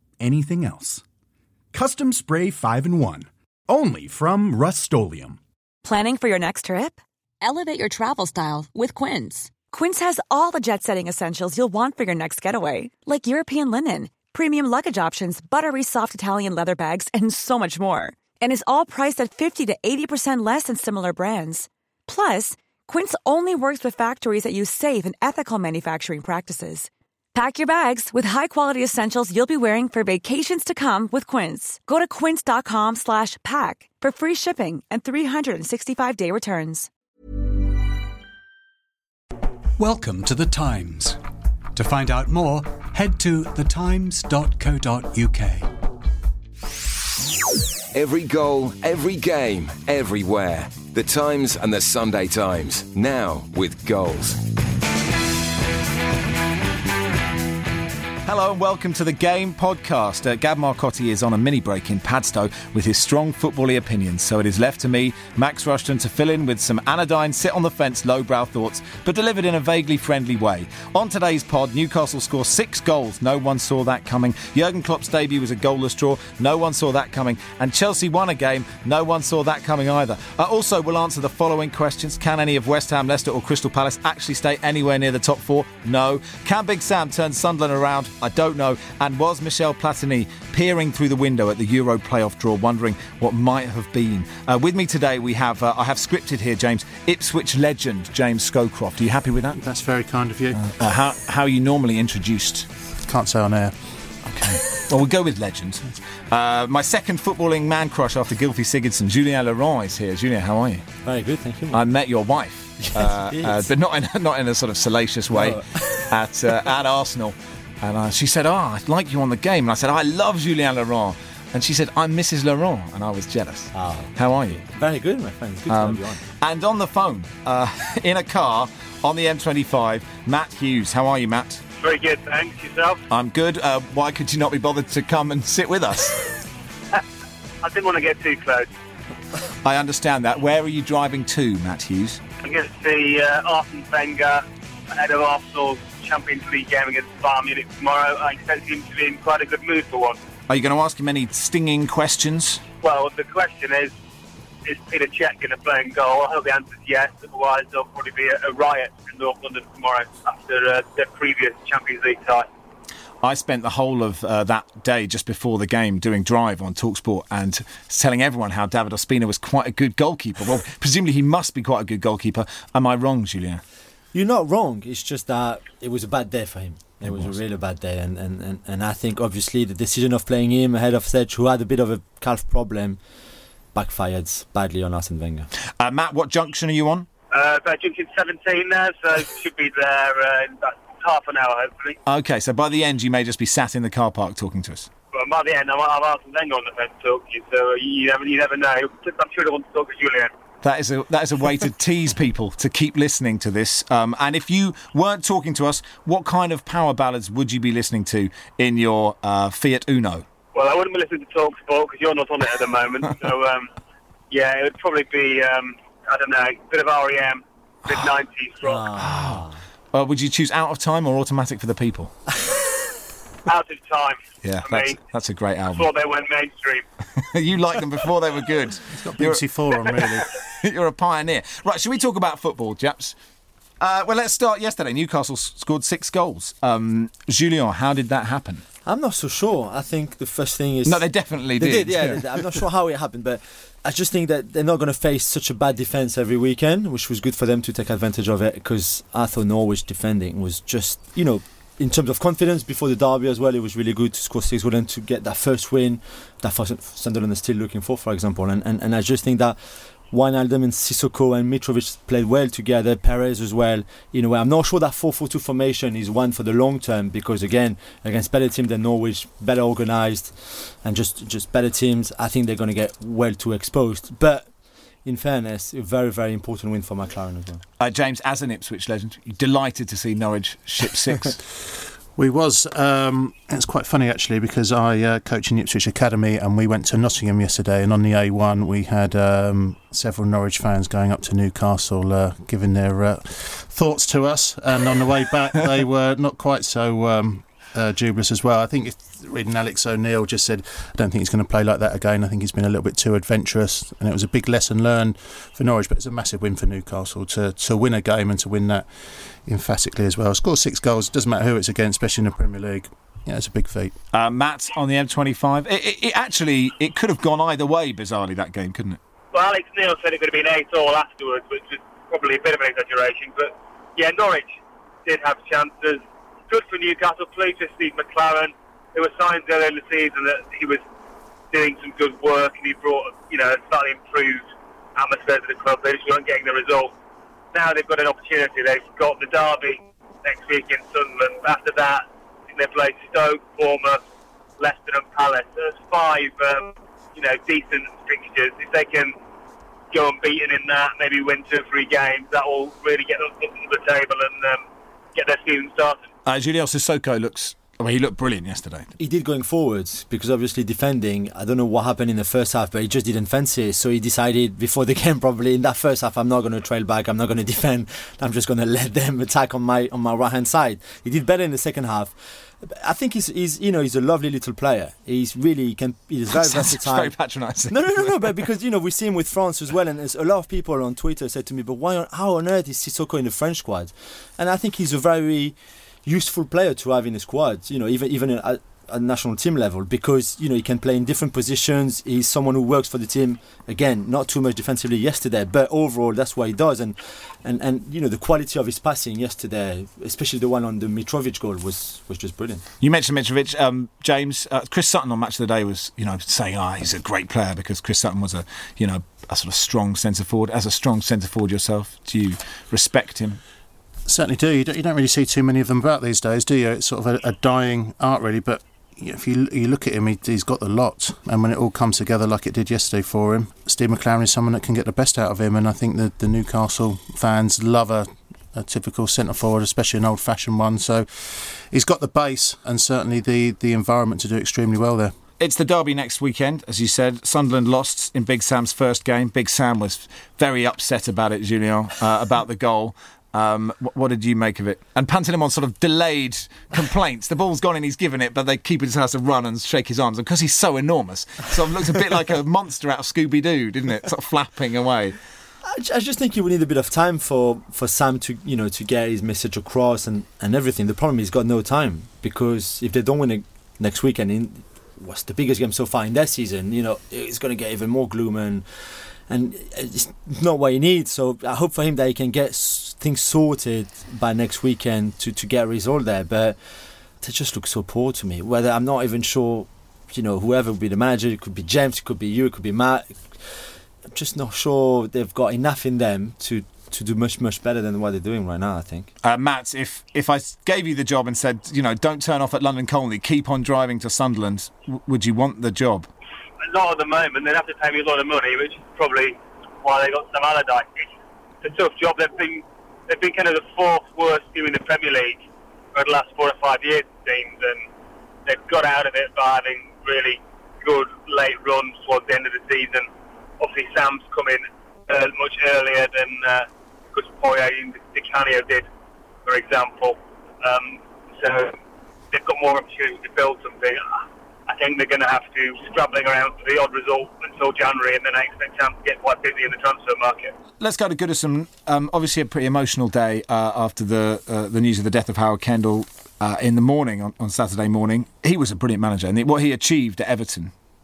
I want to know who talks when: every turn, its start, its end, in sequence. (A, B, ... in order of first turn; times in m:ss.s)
0:00.2-0:01.0 A
0:01.7-0:05.4 A
0:05.8-0:36.9 B
0:39.8-0:41.2 C
0:41.7-0:45.7 C
0:47.9-0:54.4 D
0:58.2-1:39.6 E
1:39.5-1:40.7 F
1:40.6-1:42.7 E
1:43.0-1:44.1 F
1:44.2-1:50.8 E
1:51.0-1:51.8 G
1:51.7-2:04.6 E
1:52.8-1:53.7 G
1:55.3-1:56.1 G
2:03.7-2:06.2 G
2:05.7-2:11.6 E
2:11.8-2:13.0 H
2:13.1-2:16.2 E
2:17.6-2:18.7 H
2:19.6-2:22.2 E
2:22.4-2:30.2 H
2:30.5-2:32.6 E
2:32.8-2:33.9 H
2:34.6-2:42.5 H
2:43.2-2:53.6 E
2:54.1-3:03.0 G
2:57.0-2:57.4 E
3:03.7-3:05.5 G
3:05.8-3:07.1 E
3:07.3-3:12.0 H
3:12.0-3:14.9 E
3:15.1-3:20.3 H
3:20.6-3:30.2 E
3:30.5-3:33.7 H
3:34.3-3:38.9 H
3:38.6-3:39.6 G
3:39.0-3:42.2 E
3:43.5-3:45.0 H
3:44.4-3:45.9 E
3:45.7-3:46.8 H
3:47.2-3:49.4 E
3:48.9-3:50.3 F
3:50.4-3:53.2 E
3:53.8-3:58.6 E
3:58.8-4:01.0 G
4:00.8-4:02.6 E
4:01.6-4:37.6 G
4:37.8-4:41.4 E
4:42.1-5:13.9 F
5:14.1-5:19.0 E
5:19.3-5:30.8 H
5:31.5-5:36.9 H
5:37.5-5:44.0 H
5:44.6-5:49.2 H
5:49.9-5:54.6 H
5:55.1-5:56.1 H
5:56.2-5:58.9 E
5:59.0-6:42.6 G
6:16.3-6:18.3 E
6:42.8-6:53.4 E
6:54.0-7:15.1 F
7:15.4-7:35.2 E
7:35.6-8:09.1 G
8:09.2-8:16.1 E
8:16.6-8:21.1 H
8:21.6-8:25.4 H
8:25.9-8:27.8 H
8:28.4-8:33.1 H
8:33.6-8:38.9 H
8:39.4-8:41.8 H
8:42.3-8:44.2 H
8:44.7-8:50.5 H
8:50.8-9:00.7 E